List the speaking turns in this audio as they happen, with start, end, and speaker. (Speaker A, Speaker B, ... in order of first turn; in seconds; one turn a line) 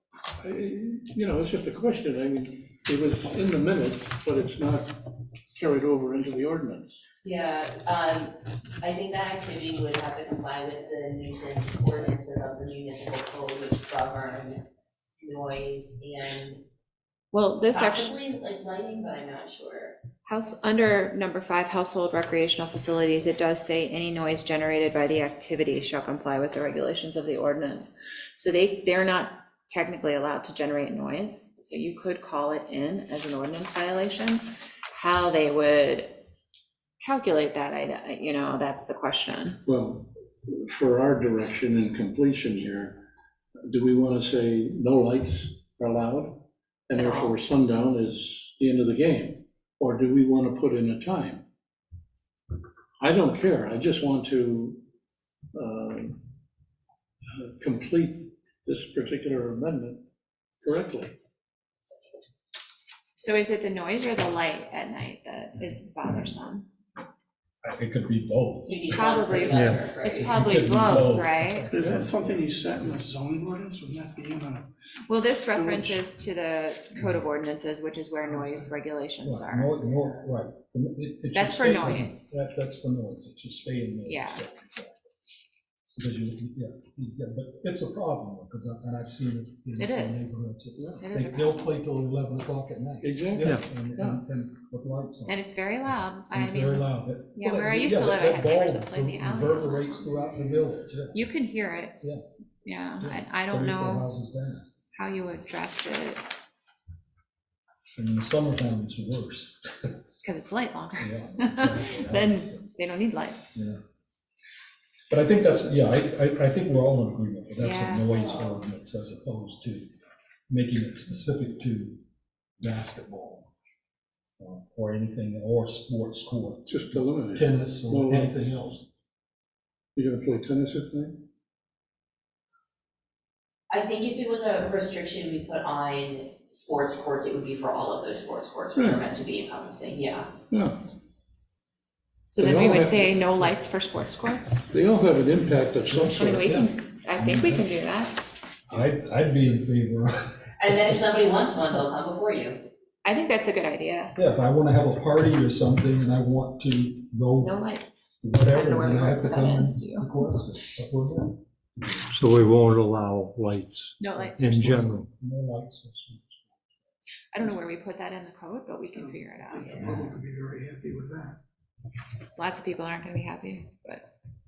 Speaker A: 0.4-7.0
Speaker B: 7.2-14.6
Speaker B: 15.2-16.6
Speaker C: 17.3-18.1
Speaker B: 17.7-20.0
Speaker C: 20.2-36.2
Speaker C: 37.0-39.6
Speaker A: 39.6-43.0
Speaker A: 43.6-51.4
Speaker C: 46.9-47.4
Speaker A: 53.0-54.8
Speaker A: 55.5-56.2
Speaker A: 57.3-60.0
Speaker A: 60.6-61.2
Speaker C: 63.2-66.7
Speaker D: 67.6-69.0
Speaker B: 68.7-70.7
Speaker C: 68.7-71.7
Speaker E: 69.5-69.8
Speaker D: 70.2-72.4
Speaker F: 71.7-74.7
Speaker C: 75.1-79.8
Speaker F: 75.5-76.0
Speaker D: 79.2-85.1
Speaker C: 81.3-82.4
Speaker C: 84.1-84.4
Speaker D: 86.0-95.4
Speaker C: 89.8-90.4
Speaker C: 91.0-91.8
Speaker A: 93.0-94.2
Speaker C: 95.3-100.4
Speaker D: 96.3-101.2
Speaker C: 101.1-102.0
Speaker C: 102.6-104.1
Speaker D: 103.0-104.6
Speaker C: 104.9-106.2
Speaker D: 107.9-109.9
Speaker C: 110.2-113.6
Speaker D: 111.0-112.7
Speaker D: 115.1-119.9
Speaker C: 117.6-118.2
Speaker B: 118.2-118.6
Speaker D: 120.5-122.0
Speaker D: 122.6-123.5
Speaker D: 124.4-128.9
Speaker A: 126.7-128.6
Speaker A: 129.9-131.2
Speaker B: 133.7-140.3
Speaker A: 138.7-139.0
Speaker A: 140.5-140.8
Speaker C: 142.3-144.6
Speaker A: 142.4-143.5
Speaker A: 144.7-146.6
Speaker C: 146.0-148.2
Speaker D: 146.4-147.7
Speaker D: 148.7-150.1
Speaker B: 150.6-152.6
Speaker C: 153.0-154.2
Speaker D: 154.2-157.6
Speaker C: 157.4-160.1
Speaker D: 158.2-162.5
Speaker E: 162.1-165.1
Speaker C: 164.0-164.4
Speaker D: 164.1-166.8
Speaker C: 167.3-170.2
Speaker F: 168.9-171.4
Speaker C: 172.3-174.1